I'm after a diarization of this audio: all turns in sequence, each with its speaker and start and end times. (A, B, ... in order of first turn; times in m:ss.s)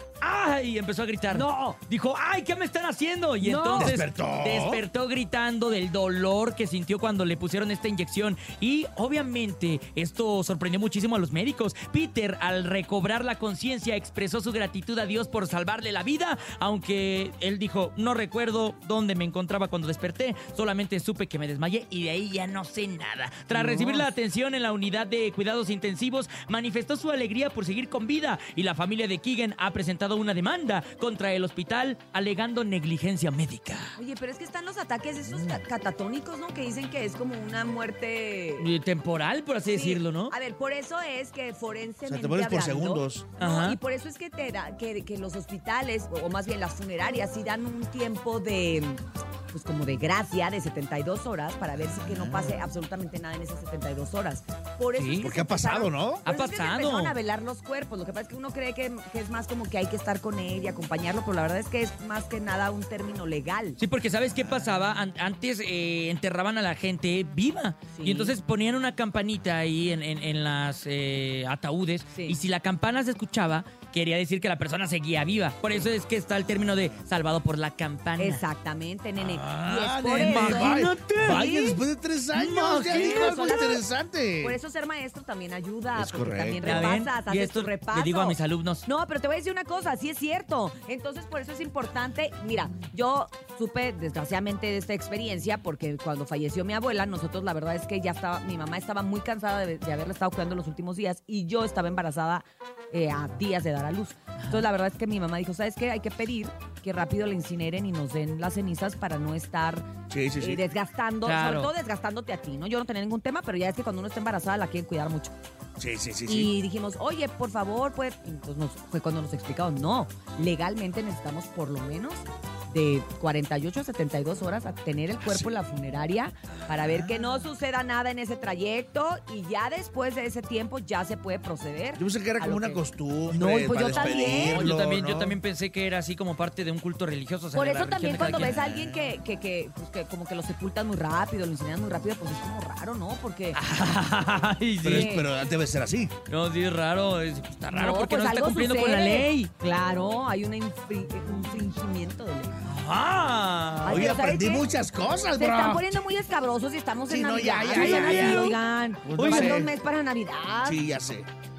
0:00.2-0:34.0 A
0:01.3-0:01.8 B
0:03.4-0:04.0 B
0:03.8-0:04.8 C
0:23.5-0:24.1 B
0:34.0-0:38.7 B
0:38.6-0:40.3 A
0:39.6-0:49.0 B
0:42.1-0:43.3 C
0:43.4-0:43.8 A
0:49.5-1:03.8 B
0:55.0-0:55.3 A
0:55.2-0:56.2 C
0:56.2-0:57.2 A
1:03.8-1:18.4 A
1:07.9-1:08.4 B
1:12.1-1:12.4 B
1:18.2-1:21.8 B
1:19.2-1:24.6 C
1:20.1-1:21.5 A
1:22.3-1:23.5 A
1:22.8-1:23.8 B
1:24.4-1:55.4 B
1:26.0-1:26.9 C
1:26.6-1:28.9 A
1:44.4-1:44.6 A
1:50.1-1:50.6 C
1:51.2-1:51.7 A
1:55.8-1:56.5 C
1:56.3-2:14.7 B
2:05.2-2:05.5 C
2:12.0-2:15.4 C
2:13.8-2:18.6 A
2:17.5-2:23.6 B
2:18.4-2:19.1 C
2:23.6-2:25.2 A
2:24.8-2:26.1 C
2:24.8-2:25.3 B
2:26.3-2:29.5 A
2:27.7-2:32.6 B
2:32.6-2:34.0 A
2:33.8-2:34.7 B
2:33.9-2:36.0 C
2:35.4-2:40.8 B
2:37.1-2:39.7 C
2:37.7-2:38.6 A
2:39.2-2:39.7 A
2:40.6-2:41.3 C